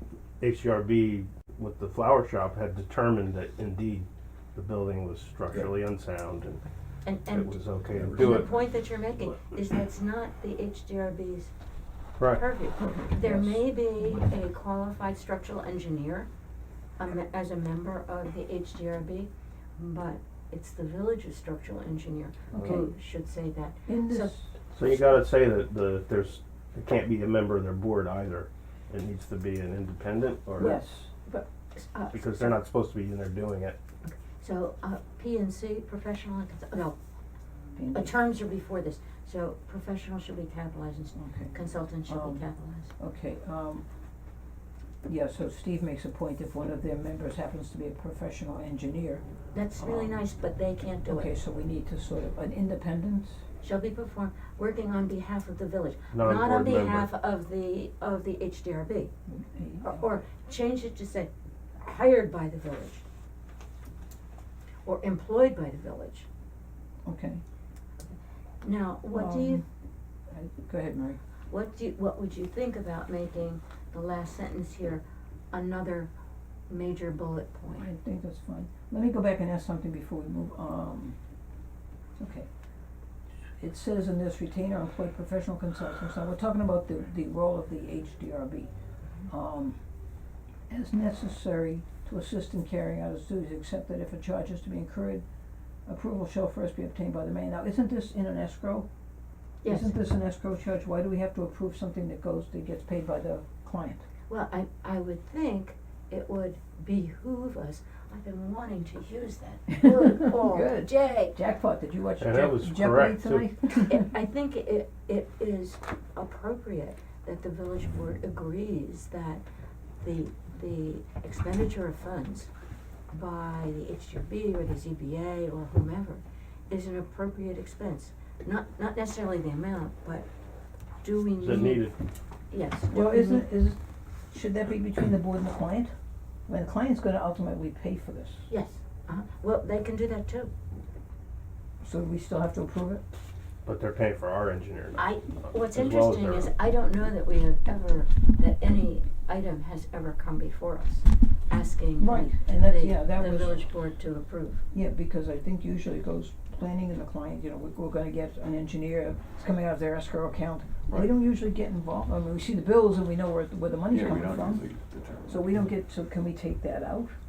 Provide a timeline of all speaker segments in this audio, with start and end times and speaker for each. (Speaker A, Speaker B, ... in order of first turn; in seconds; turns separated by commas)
Speaker A: 0.4-6.6, Speaker B: 7.0-7.5, Speaker A: 7.3-8.5, Speaker C: 7.9-8.5, Speaker B: 8.1-11.5, Speaker B: 12.3-16.3, Speaker D: 12.8-13.7, Speaker B: 17.0-24.3, Speaker D: 22.5-22.9, Speaker A: 22.5-22.8, Speaker D: 23.9-24.6, Speaker A: 24.7-30.8, Speaker D: 30.6-31.1, Speaker B: 30.6-32.5, Speaker A: 32.1-33.8, Speaker B: 34.0-37.0, Speaker D: 37.8-38.1, Speaker B: 37.9-42.9, Speaker D: 41.1-43.8, Speaker D: 45.0-49.2, Speaker B: 49.5-51.3, Speaker D: 49.8-50.2, Speaker D: 51.1-53.4, Speaker B: 53.6-59.1, Speaker A: 56.1-57.1, Speaker D: 59.3-60.1, Speaker B: 59.8-63.0, Speaker B: 64.8-66.3, Speaker D: 67.0-67.4, Speaker B: 68.6-69.6, Speaker D: 69.1-69.6, Speaker D: 70.3-71.2, Speaker B: 71.5-76.1, Speaker B: 76.7-77.9, Speaker D: 77.7-81.2, Speaker D: 82.2-82.5, Speaker D: 83.6-88.7, Speaker D: 89.3-89.8, Speaker D: 90.7-95.2, Speaker D: 95.8-98.9, Speaker B: 99.6-100.0, Speaker D: 99.7-104.0, Speaker B: 104.3-111.3, Speaker D: 109.7-114.1, Speaker A: 112.2-113.5, Speaker B: 113.8-119.4, Speaker B: 120.0-122.5, Speaker B: 123.1-130.3, Speaker B: 131.0-131.9, Speaker A: 131.4-132.0, Speaker B: 132.5-133.5, Speaker D: 132.9-133.8, Speaker D: 134.3-135.9, Speaker D: 136.5-138.5, Speaker B: 138.5-140.5, Speaker D: 141.8-143.0, Speaker A: 143.6-146.5, Speaker B: 145.0-154.6, Speaker D: 152.0-153.7, Speaker D: 154.7-164.7, Speaker C: 163.9-165.5, Speaker D: 165.3-167.2